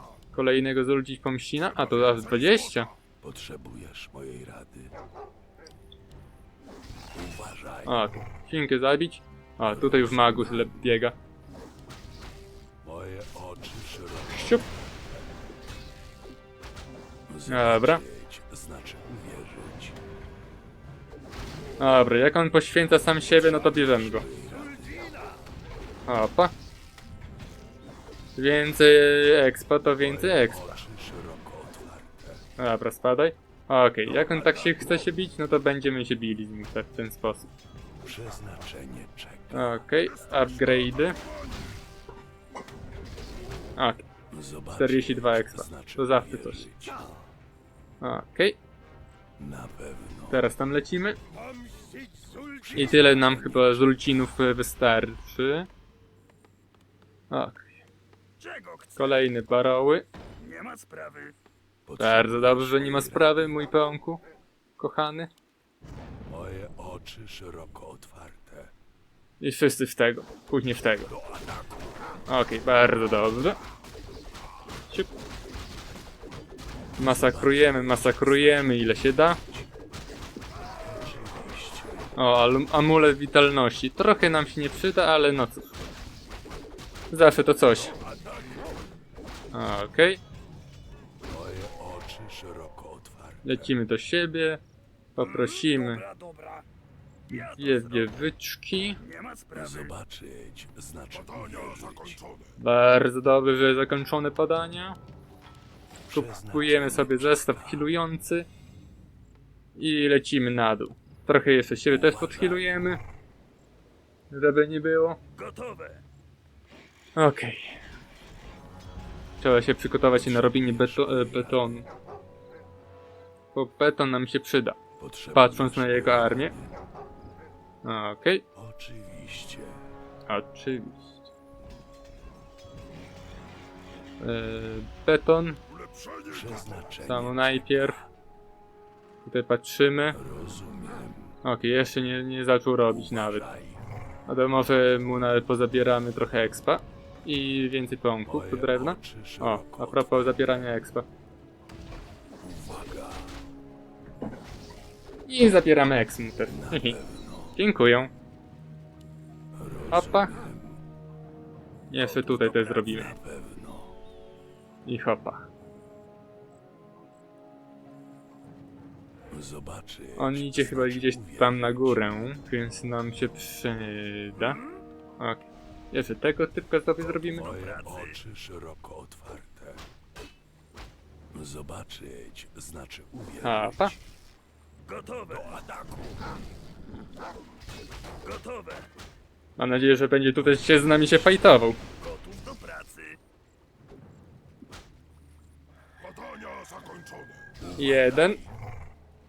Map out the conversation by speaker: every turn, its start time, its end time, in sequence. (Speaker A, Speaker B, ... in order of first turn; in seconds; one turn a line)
Speaker A: 0.3-2.9
Speaker B: 3.2-5.0
Speaker B: 7.1-7.9
Speaker A: 7.8-11.2
Speaker B: 9.6-10.8
Speaker B: 12.8-15.3
Speaker A: 14.3-14.7
Speaker B: 17.3-20.0
Speaker A: 17.5-18.0
Speaker A: 21.8-24.3
Speaker B: 23.5-25.2
Speaker C: 24.7-25.4
Speaker A: 26.1-26.5
Speaker A: 28.4-30.8
Speaker B: 30.0-32.4
Speaker A: 32.6-37.5
Speaker B: 34.1-34.8
Speaker B: 38.0-39.7
Speaker A: 39.5-41.2
Speaker A: 43.8-44.0
Speaker B: 44.3-47.0
Speaker A: 44.7-46.7
Speaker A: 48.0-48.6
Speaker B: 49.4-50.4
Speaker A: 50.3-51.2
Speaker B: 52.7-54.0
Speaker A: 52.7-55.7
Speaker A: 57.3-57.7
Speaker C: 58.4-59.1
Speaker A: 59.0-60.1
Speaker C: 60.4-61.4
Speaker B: 61.9-63.5
Speaker A: 62.0-64.2
Speaker A: 64.8-65.3
Speaker B: 66.3-68.7
Speaker A: 69.4-71.2
Speaker B: 71.3-71.7
Speaker A: 72.3-73.6
Speaker A: 77.0-79.4
Speaker B: 77.0-78.6
Speaker B: 80.8-82.1
Speaker A: 82.2-85.8
Speaker A: 87.1-88.0
Speaker A: 89.5-90.2
Speaker B: 91.2-93.7
Speaker A: 93.4-94.6
Speaker A: 95.2-96.1
Speaker C: 95.4-96.7
Speaker A: 97.3-99.0
Speaker C: 97.3-98.1
Speaker C: 99.0-99.9
Speaker B: 99.5-102.2
Speaker A: 102.6-105.0
Speaker A: 106.1-108.5
Speaker B: 106.1-107.9
Speaker A: 109.8-113.0
Speaker A: 114.3-115.2
Speaker C: 115.3-116.0
Speaker A: 117.2-117.8
Speaker A: 119.4-121.9
Speaker B: 120.0-121.7
Speaker A: 123.5-124.8
Speaker B: 125.0-126.7
Speaker A: 125.3-126.5
Speaker A: 127.8-128.4
Speaker B: 128.6-129.8
Speaker A: 130.3-131.3
Speaker A: 134.2-135.6
Speaker B: 136.3-137.9
Speaker A: 137.0-138.0
Speaker A: 139.2-140.2
Speaker B: 140.2-141.3
Speaker A: 141.4-143.5
Speaker B: 143.1-143.8
Speaker A: 144.3-151.1
Speaker B: 148.3-150.4
Speaker B: 152.4-153.4
Speaker A: 155.3-157.0
Speaker B: 156.5-157.6
Speaker A: 157.6-158.1
Speaker B: 159.6-160.8
Speaker A: 159.9-160.4
Speaker A: 161.9-163.2
Speaker B: 162.2-163.9
Speaker A: 164.8-165.5
Speaker B: 169.3-172.0
Speaker A: 170.2-174.6
Speaker A: 175.2-177.6
Speaker B: 177.3-179.8
Speaker C: 177.5-178.2
Speaker B: 181.3-184.0
Speaker A: 183.4-184.0
Speaker C: 184.9-185.8
Speaker B: 185.3-185.9
Speaker C: 188.2-188.9
Speaker A: 189.6-191.8
Speaker C: 192.0-193.2
Speaker B: 197.7-198.1
Speaker A: 197.8-198.4